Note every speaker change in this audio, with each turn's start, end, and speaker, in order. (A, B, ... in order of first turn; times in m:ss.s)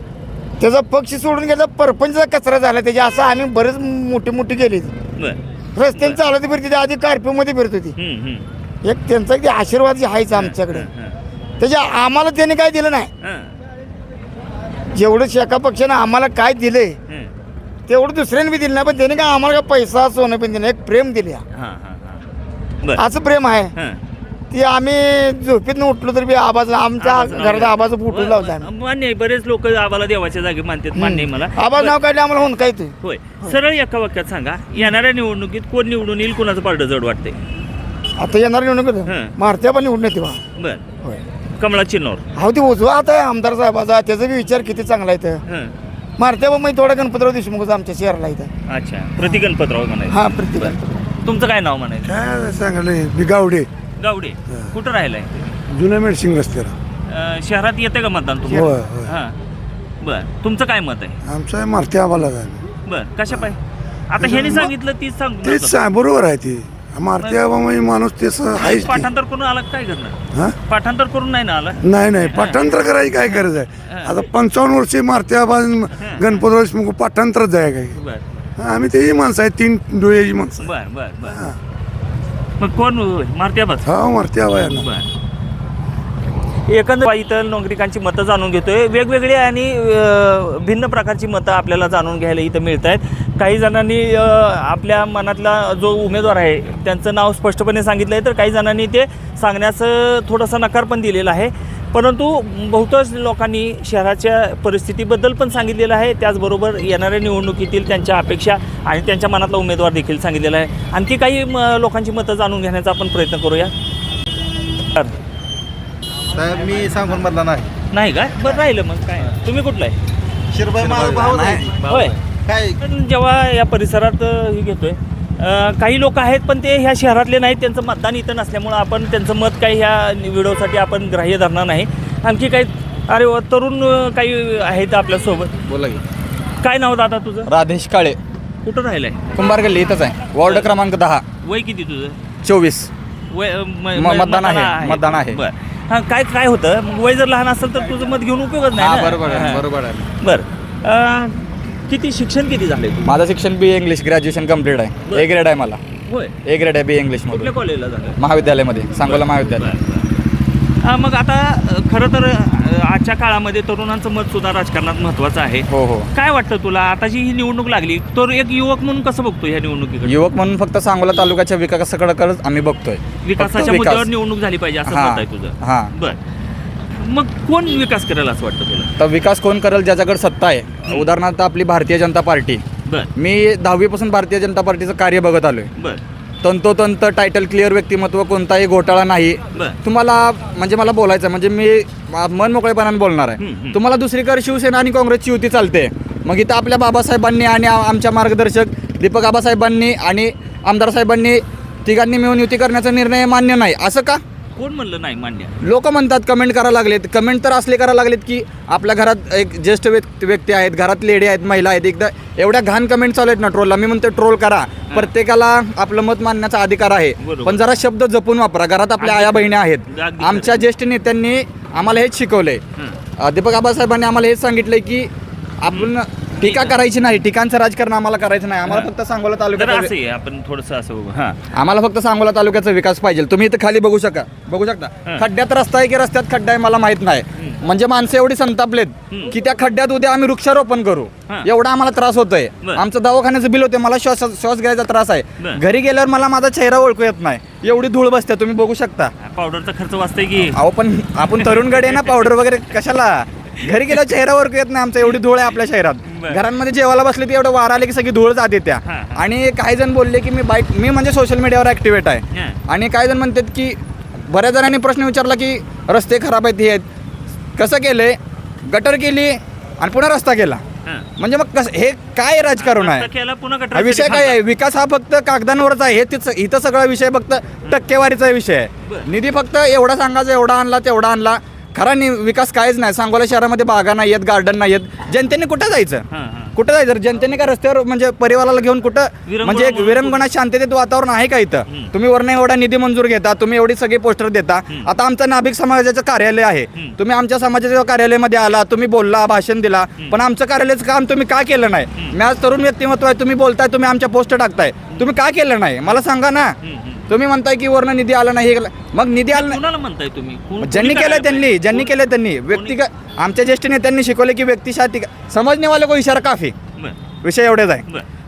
0:00.6-0:04.9 A
0:05.2-0:05.4 B
0:05.8-0:07.9 A
0:05.9-0:06.2 B
0:08.0-0:08.4 B
0:08.8-0:10.9 A
0:10.3-0:11.2 B
0:11.6-0:13.1 A
0:13.2-0:13.5 B
0:14.9-0:17.0 A
0:17.9-0:21.4 A
0:21.5-0:22.2 B
0:23.0-0:23.7 A
0:23.7-0:24.0 B
0:24.5-0:28.7 A
0:27.0-0:32.0 B
0:30.9-0:33.6 A
0:33.0-0:37.4 B
0:38.2-0:40.4 A
0:39.0-0:39.3 B
0:40.6-0:40.8 B
0:41.6-0:42.2 B
0:42.4-0:45.4 A
0:45.5-0:45.7 B
0:46.2-0:48.5 A
0:48.7-0:52.1 B
0:50.1-0:51.0 A
0:52.0-0:53.7 C
0:54.0-0:55.6 B
0:55.7-0:56.7 C
0:57.1-0:59.4 B
0:58.5-0:59.1 C
1:00.0-1:01.2 B
1:01.2-1:02.6 C
1:02.8-1:05.8 B
1:04.2-1:04.7 C
1:05.4-1:09.1 C
1:08.6-1:13.1 B
1:11.8-1:18.0 C
1:13.9-1:14.2 B
1:16.0-1:16.4 B
1:17.9-1:18.2 B
1:18.6-1:20.7 C
1:20.6-1:21.4 B
1:21.2-1:21.5 C
1:22.6-1:23.9 B
1:23.8-1:24.9 C
1:24.6-1:25.1 B
1:26.7-1:53.7 B
1:56.4-1:57.6 D
1:57.9-2:00.0 B
2:00.6-2:02.1 E
2:00.7-2:01.6 D
2:01.0-2:15.5 B
2:15.7-2:16.0 E
2:16.6-2:17.5 B
2:17.5-2:18.2 E
2:18.6-2:19.2 B
2:19.3-2:21.2 E
2:21.4-2:22.2 B
2:22.4-2:22.9 E
2:23.3-2:33.1 B
2:24.0-2:25.4 E
2:28.8-2:30.0 E
2:33.0-2:35.8 E
2:36.1-2:36.3 B
2:36.4-2:37.5 E
2:37.3-2:38.2 B
2:38.2-2:39.7 E
2:39.0-2:40.1 B
2:40.8-2:50.2 B
2:45.7-2:46.1 E
2:50.0-2:54.1 E
2:53.2-2:56.2 B
2:54.8-2:55.9 E
2:56.9-2:58.9 B
2:59.0-3:02.6 E
3:03.1-3:05.7 E
3:05.8-3:06.0 B
3:06.4-3:24.2 E
3:13.4-3:13.8 B
3:24.6-3:25.6 B
3:25.6-3:42.6 E
3:37.2-3:37.6 B
3:39.0-3:40.6 B
3:43.2-3:45.1 E
3:45.6-3:49.9 E
3:46.4-3:46.8 B
3:49.5-3:51.4 B
3:51.5-4:09.1 E
4:09.2-4:10.6 B
4:10.4-4:23.8 E
4:11.3-4:12.2 B
4:16.1-4:16.4 B
4:18.8-4:19.2 B
4:22.3-4:22.6 B
4:24.3-4:26.8 E
4:27.6-4:30.6 E
4:31.2-4:33.1 E
4:32.6-4:34.4 B
4:33.7-4:46.0 E
4:46.1-4:46.5 B
4:46.5-5:06.6 E
4:49.3-4:50.2 B
5:06.6-5:07.1 B
5:07.1-5:09.6 E
5:09.3-5:11.9 B
5:10.6-5:16.5 E
5:12.5-5:12.8 B
5:17.2-5:17.8 E